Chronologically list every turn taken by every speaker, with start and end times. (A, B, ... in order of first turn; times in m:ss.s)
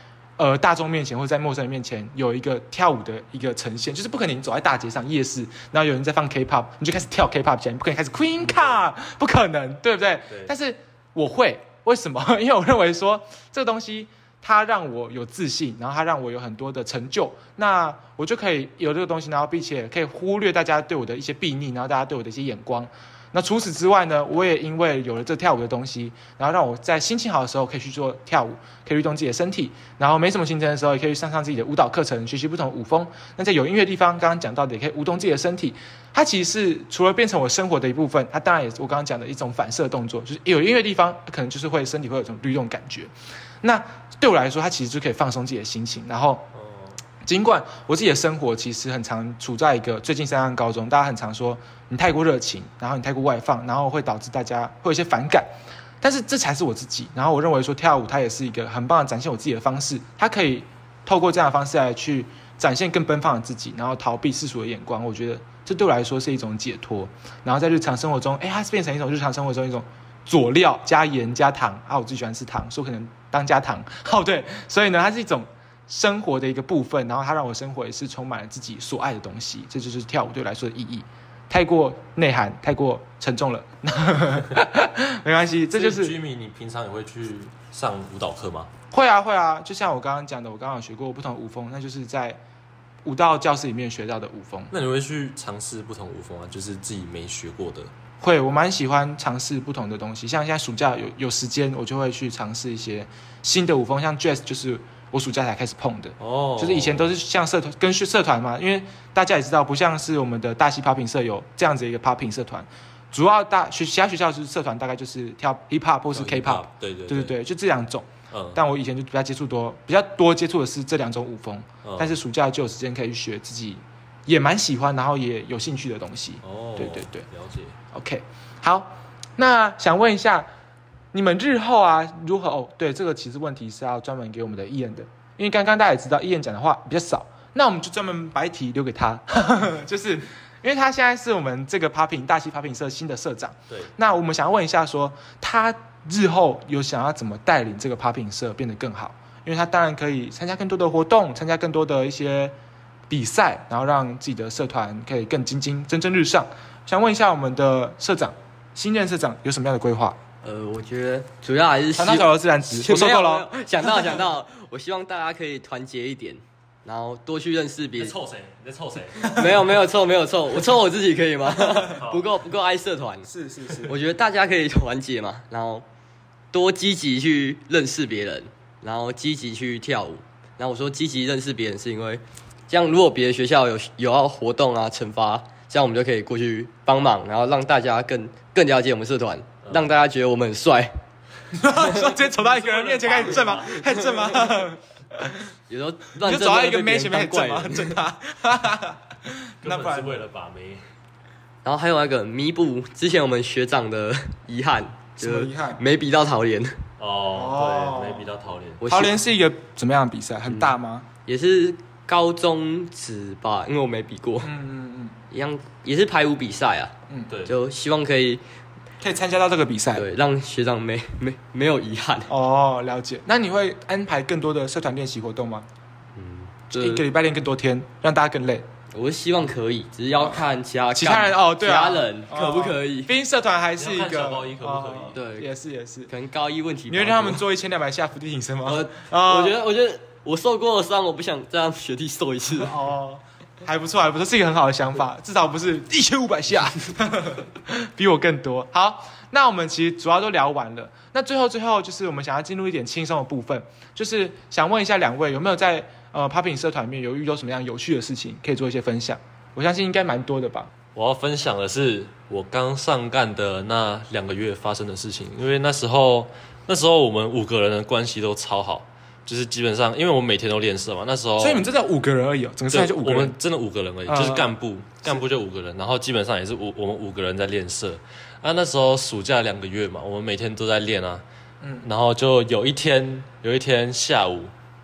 0:00.4-0:46.5 A
0:46.5-0:47.0 B
0:47.2-0:55.5 A
0:56.0-1:26.2 A
1:25.7-1:28.7 B
1:28.9-1:32.4 A
1:33.0-1:34.7 A
1:34.7-1:37.9 B
1:38.2-2:07.3 A
1:46.2-1:47.1 B
1:56.1-1:57.3 B
1:58.3-1:58.6 B
2:01.8-2:02.2 B
2:06.4-2:07.8 B
2:07.9-2:10.5 A
2:11.1-2:32.5 A
2:33.1-2:40.2 A
2:40.4-2:48.1 C
2:42.0-2:44.1 A
2:48.0-2:49.6 B
2:49.2-2:53.3 C
2:49.3-2:49.5 A
2:52.0-2:52.4 B
2:53.3-2:54.0 A
2:53.8-2:55.8 C
2:56.5-3:10.9 C
3:11.5-3:15.4 A
3:11.8-3:12.1 C
3:12.8-3:13.6 B
3:12.8-3:14.0 C
3:15.7-3:17.9 C
3:16.2-3:20.2 A
3:19.6-3:20.8 B
3:21.6-3:26.8 C
3:25.2-3:25.8 A
3:27.0-3:28.8 B
3:27.3-3:28.3 A
3:28.8-3:29.1 C
3:28.9-3:31.1 A
3:31.3-3:34.5 C
3:34.4-3:35.2 A
3:35.3-3:36.9 C
3:37.3-3:37.5 B
3:37.5-3:38.4 C
3:39.0-3:40.1 A
3:40.0-3:42.3 C
3:42.3-3:45.7 A
3:46.2-3:47.0 C
3:46.8-3:48.6 A
3:48.9-3:53.1 C
3:50.9-3:56.1 A
3:53.8-3:55.2 B
3:55.2-3:55.5 C
3:56.1-3:57.4 C
3:56.9-3:59.6 A
3:58.6-4:02.8 C
4:02.6-4:20.7 A
4:21.0-4:31.6 B
4:31.4-4:33.4 A
4:32.7-4:41.2 B
4:34.1-4:34.5 A
4:41.6-4:41.9 A
4:41.8-4:44.5 B